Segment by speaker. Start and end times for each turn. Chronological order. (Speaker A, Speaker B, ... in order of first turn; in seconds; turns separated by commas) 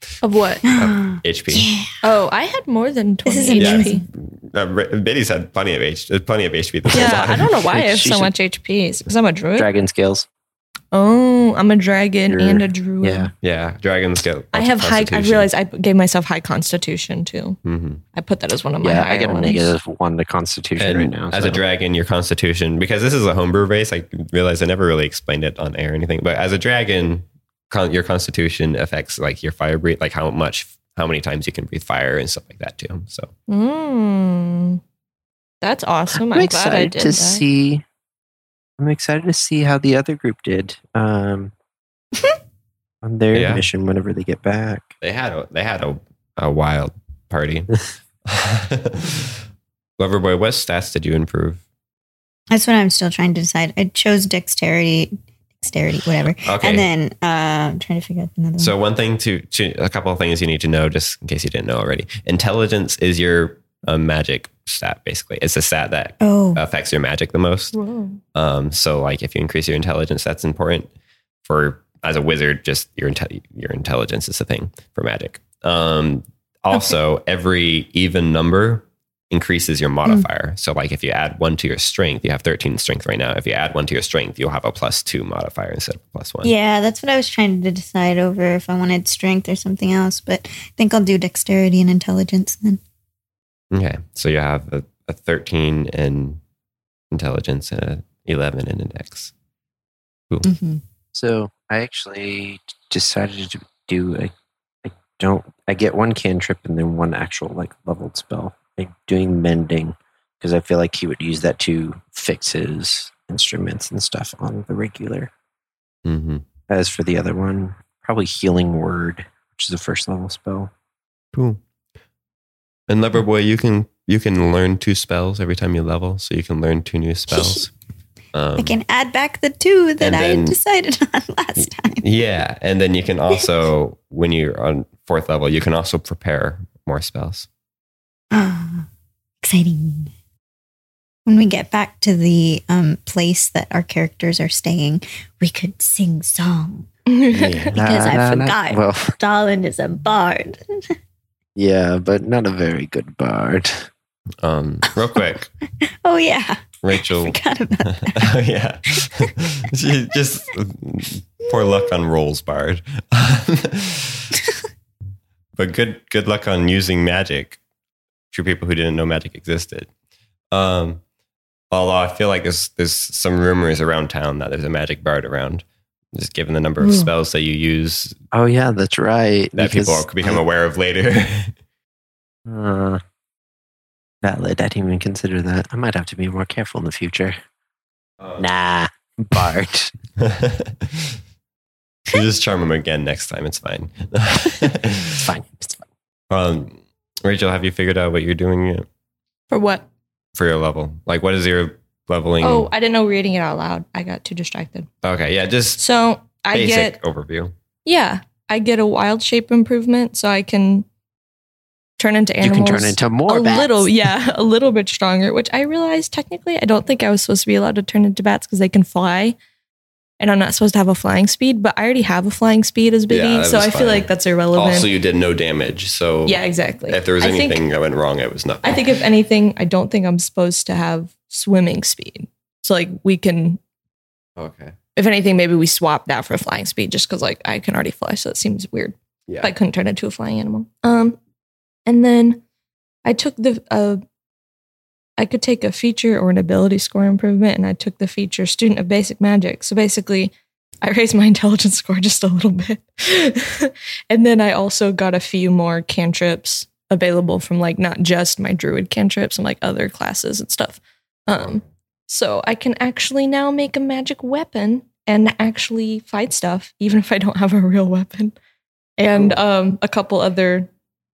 Speaker A: 0.2-0.6, Speaker B: 0.7-1.9, Speaker C: 0.7-1.6, Speaker A: 2.0-4.0, Speaker B: 3.2-4.0, Speaker C: 3.6-7.5, Speaker A: 6.9-9.7, Speaker D: 7.6-8.3, Speaker D: 9.6-10.3, Speaker A: 10.9-13.3, Speaker D: 12.3-13.3, Speaker C: 13.4-15.5, Speaker A: 14.5-17.6, Speaker C: 17.6-18.0, Speaker A: 18.1-19.7, Speaker D: 18.8-21.6, Speaker C: 20.8-33.3, Speaker A: 33.5-34.8, Speaker A: 35.6-37.4, Speaker D: 36.1-37.8, Speaker D: 38.8-41.5, Speaker D: 43.0-44.9, Speaker C: 43.3-43.6, Speaker C: 45.0-47.7, Speaker C: 48.2-49.3, Speaker C: 50.0-51.6, Speaker B: 52.5-58.7, Speaker C: 56.4-56.9, Speaker C: 58.6-67.8, Speaker B: 66.2-66.6, Speaker A: 67.7-68.2, Speaker C: 68.3-70.9, Speaker C: 71.4-86.5, Speaker B: 86.4-92.8, Speaker C: 93.7-96.4, Speaker C: 97.1-99.3, Speaker B: 100.4-100.8, Speaker D: 101.1-104.3, Speaker D: 104.8-115.3, Speaker C: 116.0-116.4, Speaker D: 116.7-120.7, Speaker C: 121.3-121.6, Speaker C: 122.9-127.7, Speaker B: 127.3-127.6, Speaker C: 128.3-128.8, Speaker B: 128.6-132.0, Speaker C: 130.0-130.6, Speaker C: 132.0-137.5, Speaker B: 138.3-138.9, Speaker B: 139.4-140.1, Speaker B: 141.2-146.9, Speaker A: 147.1-148.1, Speaker C: 147.3-147.7, Speaker D: 147.7-149.1, Speaker B: 147.7-150.6, Speaker D: 151.6-153.9, Speaker C: 154.4-155.5, Speaker B: 155.8-158.2, Speaker C: 156.8-157.3, Speaker C: 157.8-164.3, Speaker C: 165.6-167.6, Speaker C: 168.3-169.9, Speaker C: 170.5-171.0, Speaker C: 171.7-178.1, Speaker B: 176.8-177.1, Speaker D: 178.3-180.4, Speaker C: 179.6-181.5, Speaker D: 182.4-183.0, Speaker D: 184.2-187.3, Speaker D: 188.4-189.9, Speaker C: 190.2-191.2, Speaker C: 192.1-195.3, Speaker D: 195.2-195.9, Speaker C: 196.3-198.8, Speaker A: 199.5-199.8, Speaker C: 200.3-202.7, Speaker A: 202.4-204.9, Speaker C: 205.0-205.8, Speaker A: 205.8-207.0, Speaker C: 206.5-207.5, Speaker A: 207.8-210.8, Speaker A: 212.0-219.3, Speaker D: 212.4-213.9, Speaker A: 220.2-224.9, Speaker C: 223.1-229.0, Speaker A: 226.2-227.6, Speaker A: 228.6-233.6, Speaker C: 234.4-234.7, Speaker A: 234.9-241.2, Speaker A: 241.8-242.4, Speaker A: 243.0-244.0, Speaker A: 245.2-268.4, Speaker C: 261.3-261.6, Speaker A: 269.0-270.7